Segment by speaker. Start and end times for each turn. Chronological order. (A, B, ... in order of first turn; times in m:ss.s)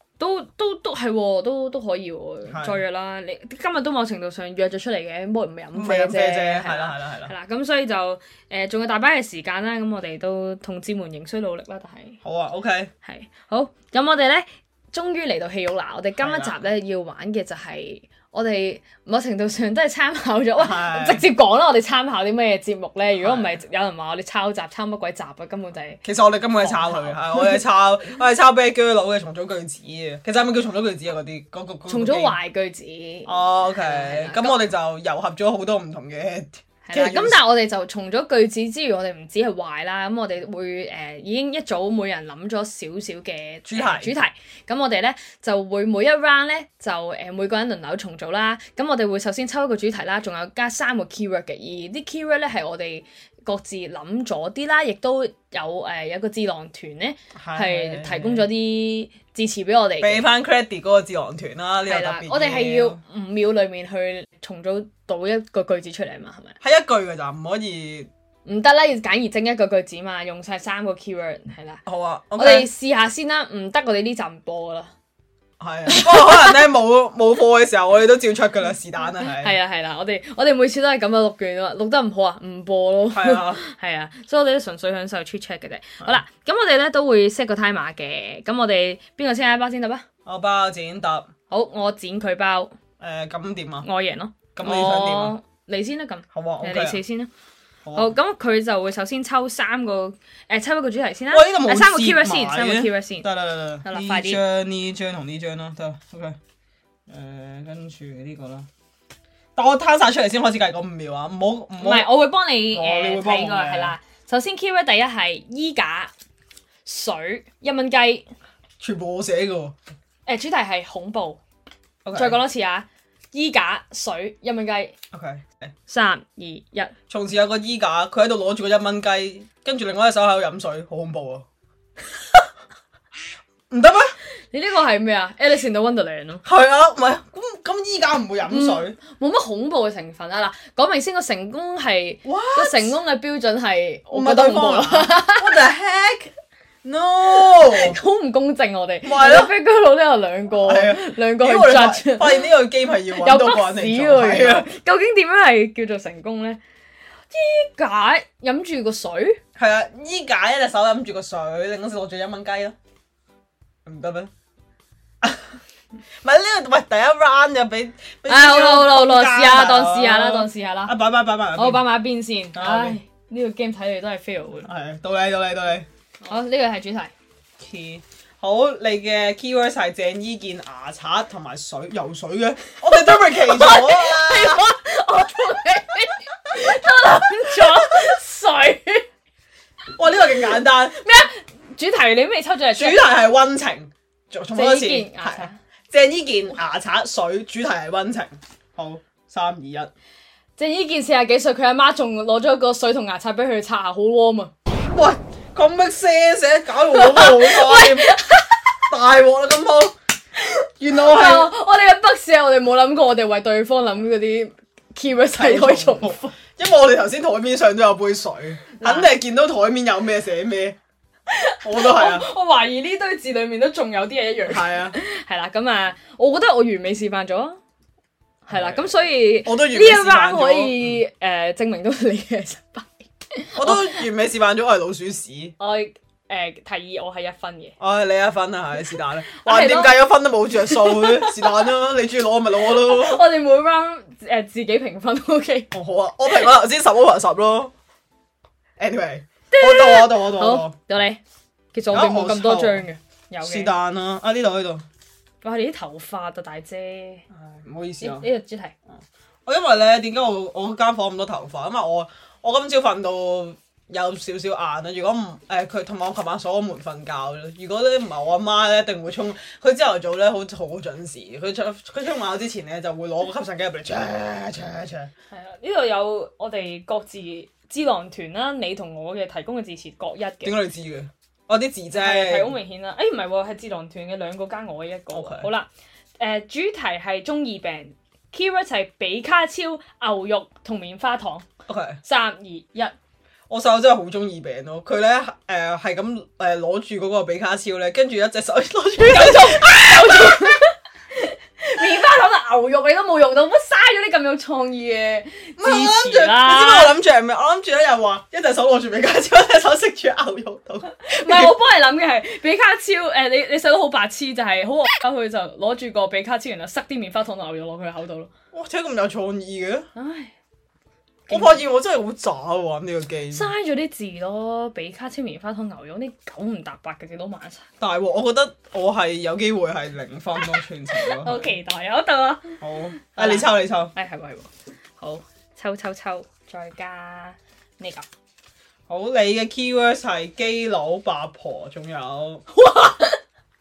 0:00.2-0:12.2 A
0:02.5-0:02.8 B
0:05.7-0:07.3 B
0:12.2-0:12.9 B
0:13.0-0:26.0 A
0:16.2-0:16.6 B
0:20.6-0:21.2 B
0:23.2-0:23.6 B
0:26.0-0:32.4 B
0:26.6-0:27.6 A
0:31.9-0:34.6 A
0:33.2-0:37.4 B
0:36.8-1:00.3 A
0:43.6-0:44.1 B
0:57.4-0:58.5 B
1:00.0-1:03.0 B
1:01.8-1:06.6 A
1:06.6-1:08.1 B
1:08.4-1:11.8 A
1:11.8-1:12.7 B
1:12.4-1:14.9 A
1:15.6-1:19.5 B
1:15.9-1:16.6 A
1:19.2-1:30.0 A
1:23.1-1:23.6 B
1:30.2-1:31.3 B
1:31.5-1:32.7 A
1:33.0-1:33.9 B
1:33.8-1:37.3 A
1:34.5-1:35.4 B
1:36.3-1:37.0 B
1:37.8-1:38.1 B
1:37.9-1:43.3 A
1:41.3-1:46.4 B
1:43.8-1:44.4 A
1:47.1-1:48.7 B
1:49.6-1:52.2 B
1:51.8-1:56.1 A
1:52.7-1:54.0 B
1:56.8-1:58.3 A
1:58.8-1:59.7 B
2:00.2-2:01.4 A
2:02.0-2:02.4 B
2:02.1-2:04.9 A
2:05.1-2:05.7 B
2:05.9-2:06.9 A
2:07.1-2:11.4 B
2:13.7-2:14.2 B
2:14.5-2:16.4 A
2:16.4-2:19.0 B
2:18.5-2:25.6 A
2:22.2-2:22.9 B
2:24.1-2:26.3 B
2:26.8-2:28.0 B
2:27.3-2:32.5 A
2:29.0-2:29.5 B
2:30.5-2:34.7 B
2:33.1-2:36.6 A
2:37.3-2:39.4 A
2:39.6-2:42.8 B
2:43.8-2:44.3 B
2:45.2-2:45.5 B
2:46.2-2:51.9 B
2:48.3-2:51.0 A
2:51.5-2:54.7 A
2:52.5-2:53.0 B
2:54.6-2:55.9 B
2:56.2-2:57.1 A
2:57.6-3:04.7 B
3:03.0-3:09.0 A
3:09.9-3:11.0 B
3:10.3-3:13.3 A
3:12.7-3:19.9 B
3:14.5-3:15.6 A
3:20.6-3:24.5 A
3:24.9-3:28.2 B
3:26.8-3:28.8 A
3:28.9-3:29.9 B
3:30.4-3:36.3 A
3:30.8-3:31.5 B
3:35.3-3:40.8 B
3:38.8-3:39.1 A
3:41.3-3:47.6 A
3:41.6-3:42.3 B
3:44.4-3:45.0 B
3:48.5-3:54.0 A
3:48.5-3:48.9 B
3:49.4-3:51.0 B
3:53.6-3:55.6 B
3:55.6-3:57.7 A
3:57.8-4:03.4 B
3:58.9-4:01.7 A
4:02.5-4:05.7 A
4:05.7-4:07.7 B
4:08.8-4:10.8 B
4:09.5-4:11.2 A
4:11.7-4:13.7 A
4:11.9-4:12.9 B
4:13.4-4:14.8 B
4:15.4-4:17.2 A
4:17.3-4:18.3 B
4:18.0-4:18.7 A
4:19.4-4:35.1 B
4:35.3-4:40.6 A
4:40.4-4:42.6 B
4:41.9-4:51.4 A
4:45.1-4:45.5 B
4:51.7-4:52.0 B
4:52.0-4:52.9 A
4:53.5-5:00.5 B
4:59.0-5:06.9 A
5:05.6-5:11.6 B
5:10.9-5:18.3 A
5:18.5-5:19.9 B
5:19.9-5:20.3 A
5:21.3-5:21.6 A
5:21.3-5:23.5 B
5:23.3-5:27.6 A
5:27.8-5:31.5 B
5:31.0-5:38.1 A
5:32.6-5:33.9 B
5:38.9-5:42.4 B
5:42.5-5:43.2 A